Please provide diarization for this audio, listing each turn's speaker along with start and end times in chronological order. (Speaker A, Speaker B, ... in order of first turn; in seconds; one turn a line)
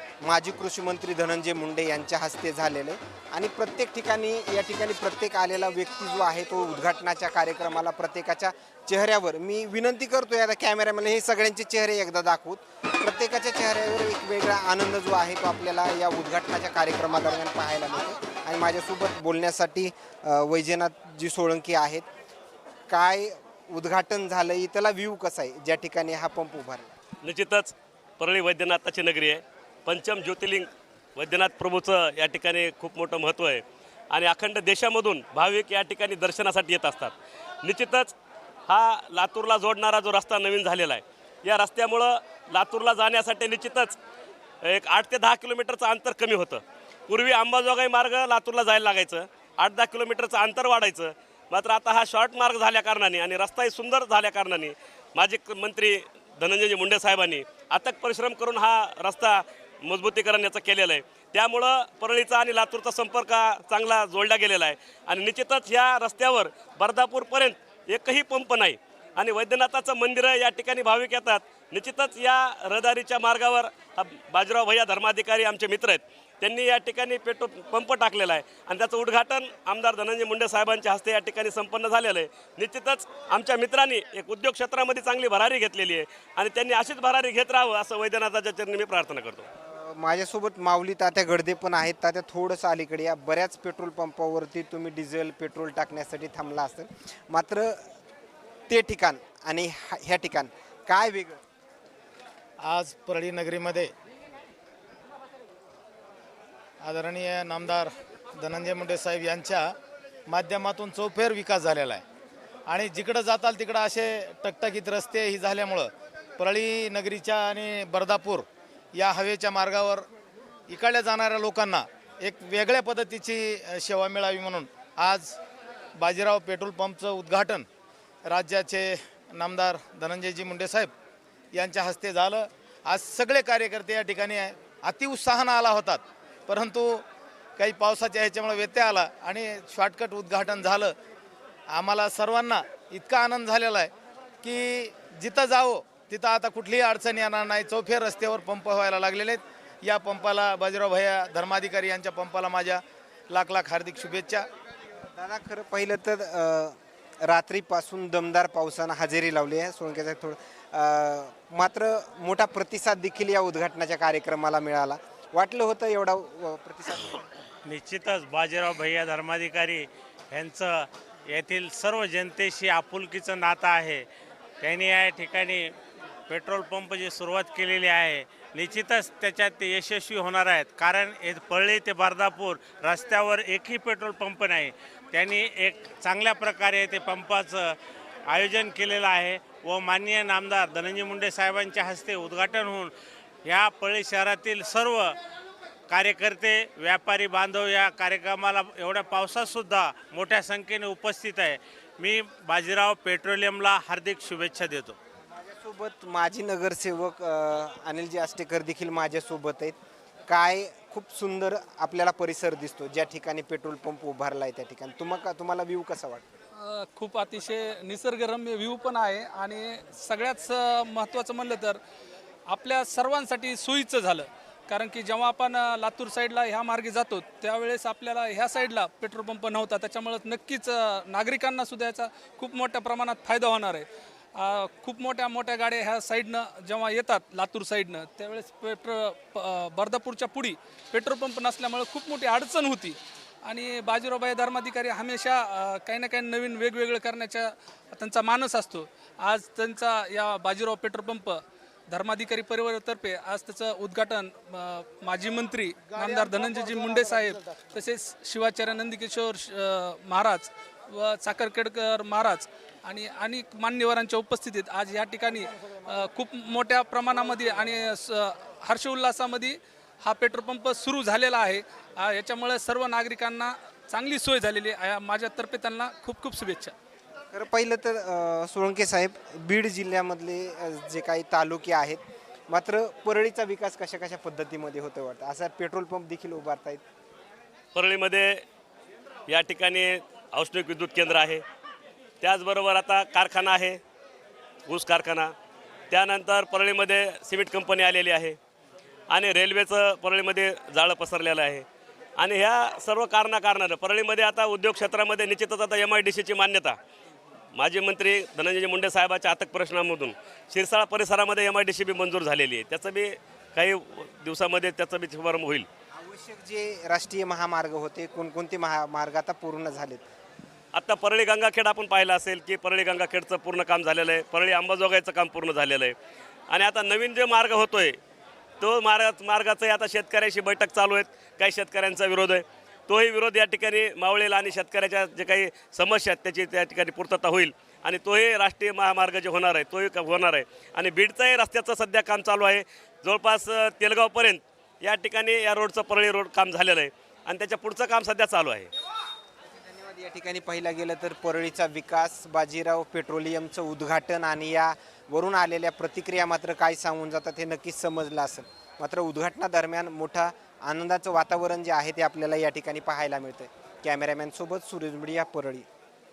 Speaker A: 0.2-22.1
Speaker A: 22.9-26.9
Speaker B: 27.2-38.1
Speaker B: 38.7-44.0
Speaker B: 44.6-89.5
Speaker A: 89.6-97.9
Speaker A: 98.7-101.4
Speaker C: 102.6-103.9
Speaker C: 106.8-109.7
Speaker C: 110.3-112.0
Speaker C: 112.7-120.1
Speaker C: 120.7-125.4
Speaker C: 126.0-127.7
Speaker C: 128.3-130.9
Speaker C: 131.5-137.1
Speaker C: 137.6-140.9
Speaker C: 141.7-143.9
Speaker C: 144.4-154.5
Speaker A: 155.1-167.3
Speaker D: 167.7-174.1
Speaker D: 174.6-175.7
Speaker D: 176.3-187.8
Speaker D: 188.3-192.9
Speaker D: 193.4-195.2
Speaker D: 195.9-205.0
Speaker A: 205.4-209.8
Speaker A: 210.3-216.4
Speaker E: 216.5-221.8
Speaker E: 222.5-276.7
Speaker C: 255.9-257.0
Speaker A: 277.3-286.8
Speaker B: 287.8-288.4
Speaker B: 289.3-291.4
Speaker B: 292.2-293.8
Speaker B: 294.7-295.3
Speaker B: 295.9-298.4
Speaker B: 299.1-301.6
Speaker B: 302.2-306.8
Speaker B: 307.5-315.7
Speaker A: 316.0-320.1
Speaker B: 320.7-325.9
Speaker B: 326.5-328.0
Speaker B: 328.6-348.7
Speaker A: 349.6-365.7